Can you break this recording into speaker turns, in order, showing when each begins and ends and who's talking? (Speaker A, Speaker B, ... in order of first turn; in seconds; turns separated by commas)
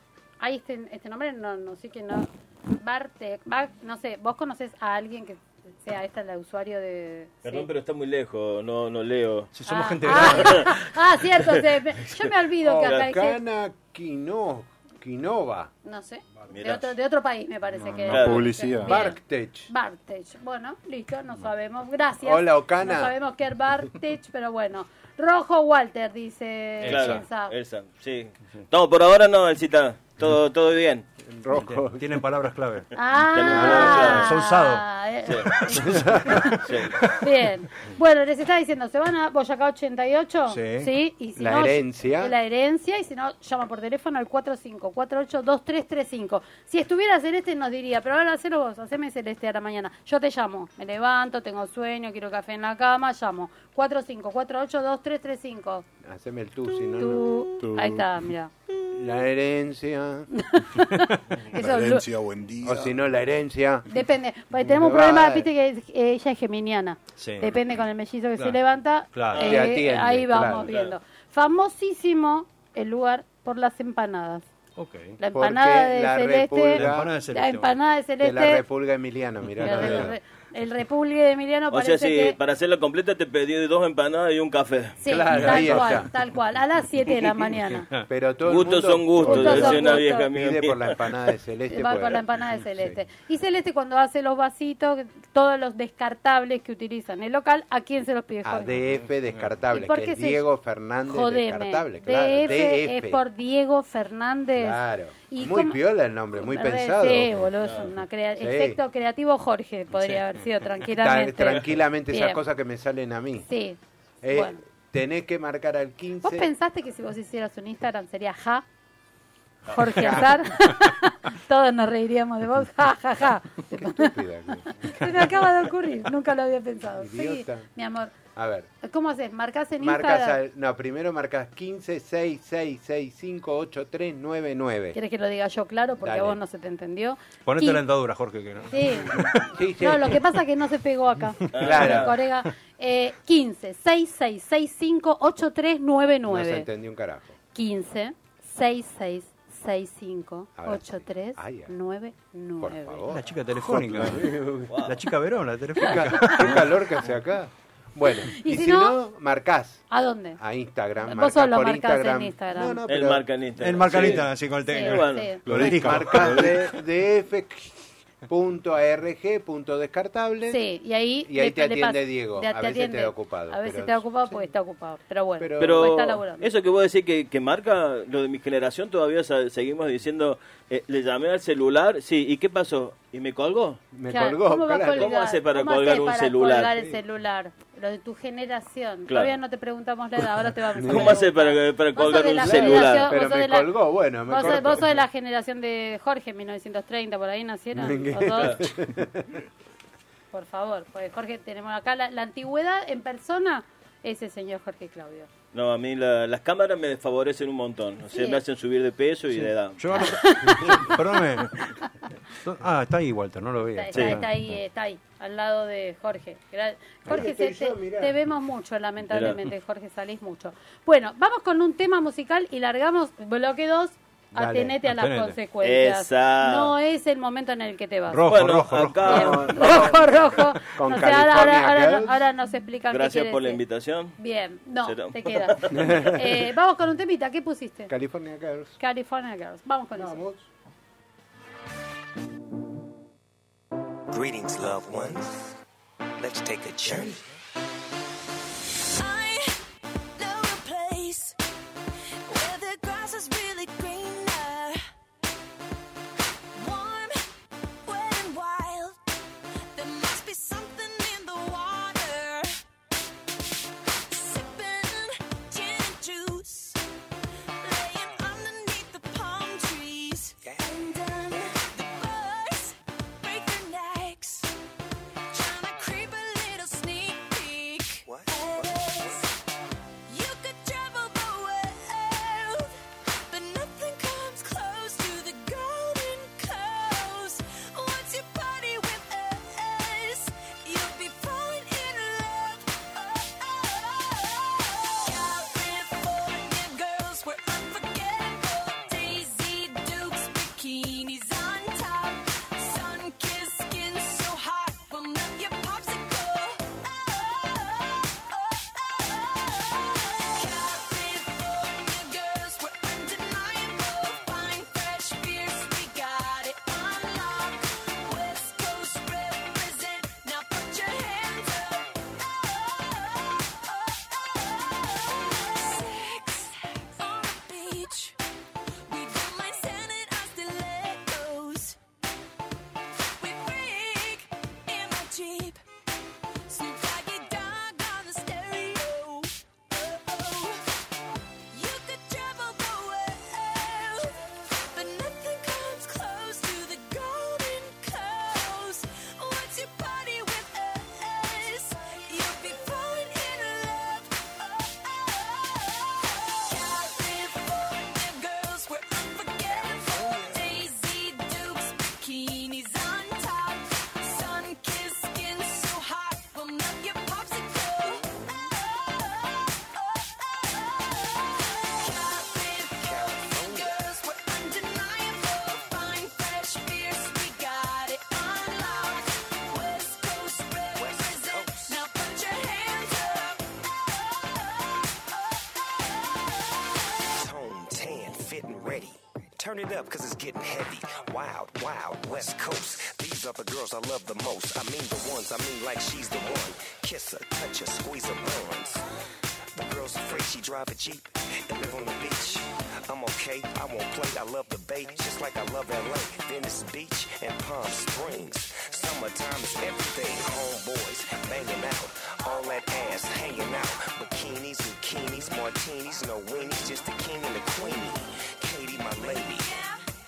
Speaker A: 0.4-7.7, Speaker B: 7.5-9.5, Speaker C: 9.5-10.9, Speaker A: 9.7-13.4, Speaker B: 10.1-10.7, Speaker D: 12.6-15.7, Speaker A: 15.8-27.5, Speaker B: 16.5-16.9, Speaker E: 17.8-19.0, Speaker B: 18.1-18.5, Speaker D: 18.8-19.7, Speaker D: 22.2-23.1, Speaker C: 26.8-27.2, Speaker B: 26.9-31.1, Speaker D: 31.3-32.2, Speaker C: 31.5-32.9, Speaker A: 33.0-55.9, Speaker B: 33.3-34.3, Speaker D: 33.5-34.2, Speaker C: 33.5-34.9, Speaker B: 35.3-35.6, Speaker C: 35.6-37.1, Speaker D: 35.8-36.6, Speaker B: 36.6-37.0, Speaker C: 40.5-40.9, Speaker D: 41.4-42.4, Speaker D: 56.0-57.3, Speaker E: 56.9-58.3, Speaker A: 57.0-58.5, Speaker D: 58.9-60.3, Speaker A: 60.3-62.1, Speaker E: 61.5-63.0, Speaker D: 62.6-63.9, Speaker A: 63.9-74.5, Speaker D: 64.6-65.5, Speaker C: 67.2-67.8, Speaker C: 69.1-69.7, Speaker B: 69.3-69.7, Speaker D: 69.4-70.7, Speaker B: 70.5-71.0, Speaker C: 74.8-75.2, Speaker A: 75.2-78.6, Speaker D: 75.3-77.1, Speaker C: 76.7-77.8, Speaker D: 78.2-80.2, Speaker C: 79.6-80.1, Speaker A: 79.6-82.4, Speaker B: 81.7-85.0, Speaker A: 85.0-87.9, Speaker D: 85.0-86.1, Speaker C: 85.4-85.8, Speaker D: 88.1-93.0, Speaker B: 88.5-91.1, Speaker A: 89.2-90.3, Speaker A: 91.7-98.7, Speaker D: 98.5-103.2, Speaker C: 98.7-99.5, Speaker A: 99.7-100.4, Speaker A: 101.1-105.8, Speaker D: 104.6-107.4, Speaker A: 106.3-112.4, Speaker B: 107.6-107.9, Speaker D: 108.4-108.8, Speaker C: 110.0-110.3, Speaker D: 111.0-113.5, Speaker A: 113.5-114.6, Speaker D: 114.2-116.5, Speaker A: 116.2-118.7, Speaker A: 119.7-124.2, Speaker D: 119.8-120.4, Speaker D: 123.7-125.2, Speaker A: 124.7-128.2, Speaker D: 127.0-127.7, Speaker D: 128.3-128.7, Speaker A: 128.8-130.4, Speaker D: 129.8-135.0, Speaker A: 134.9-137.8, Speaker D: 136.0-136.4, Speaker C: 137.4-139.5, Speaker A: 138.7-146.7, Speaker D: 139.4-140.3, Speaker B: 141.5-142.1, Speaker D: 141.5-142.2, Speaker D: 146.3-147.3, Speaker A: 147.5-153.1, Speaker D: 150.6-151.7, Speaker D: 152.6-154.8, Speaker C: 153.1-156.8, Speaker B: 154.7-155.0, Speaker D: 155.8-159.8, Speaker A: 155.8-156.4, Speaker A: 158.2-159.0, Speaker A: 159.9-160.4, Speaker D: 160.4-163.3, Speaker A: 161.1-162.8, Speaker B: 162.9-165.4, Speaker C: 163.6-166.5, Speaker D: 163.9-164.2, Speaker A: 164.7-165.8, Speaker E: 165.4-166.6, Speaker D: 165.6-170.6, Speaker A: 170.5-176.5, Speaker D: 171.2-174.5, Speaker D: 175.4-176.1, Speaker B: 175.6-183.8, Speaker D: 183.9-185.1, Speaker A: 184.1-193.7, Speaker B: 184.9-186.8, Speaker B: 189.1-189.3, Speaker D: 190.8-191.2, Speaker B: 190.9-193.1, Speaker D: 192.4-194.9, Speaker A: 194.3-198.6, Speaker D: 197.7-199.4, Speaker A: 200.3-205.3, Speaker B: 205.5-210.1, Speaker A: 208.1-208.4, Speaker C: 209.3-214.6, Speaker A: 209.9-211.0, Speaker A: 213.8-228.3, Speaker B: 213.9-214.2, Speaker D: 217.1-218.2, Speaker B: 219.1-219.4, Speaker D: 224.3-224.8, Speaker C: 224.9-225.4, Speaker B: 225.6-226.7, Speaker C: 228.1-229.5, Speaker B: 228.3-229.9, Speaker D: 229.0-232.2, Speaker A: 229.1-233.6, Speaker B: 232.9-234.2, Speaker A: 234.2-237.9, Speaker B: 234.8-236.0, Speaker D: 235.7-236.3, Speaker D: 237.9-238.8, Speaker A: 238.8-240.2, Speaker D: 240.0-240.5, Speaker F: 244.1-245.6, Speaker F: 246.2-247.2, Speaker G: 248.9-249.6, Speaker G: 250.2-251.4, Speaker G: 252.3-254.8, Speaker G: 256.6-257.2, Speaker G: 257.9-259.0, Speaker G: 259.8-262.6, Speaker G: 264.1-266.8, Speaker G: 267.6-274.5, Speaker F: 270.4-271.6, Speaker G: 275.3-279.3, Speaker F: 278.1-279.2, Speaker G: 280.1-328.2, Speaker F: 325.1-325.9, Speaker G: 328.9-331.8, Speaker G: 333.2-335.6, Speaker G: 336.5-340.7, Speaker G: 341.5-368.0, Speaker F: 359.5-360.5, Speaker F: 367.8-368.5, Speaker G: 368.8-371.1, Speaker G: 371.6-383.4, Speaker F: 372.8-373.9, Speaker F: 380.8-381.8, Speaker F: 387.1-398.9, Speaker F: 399.5-419.6, Speaker G: 419.0-419.8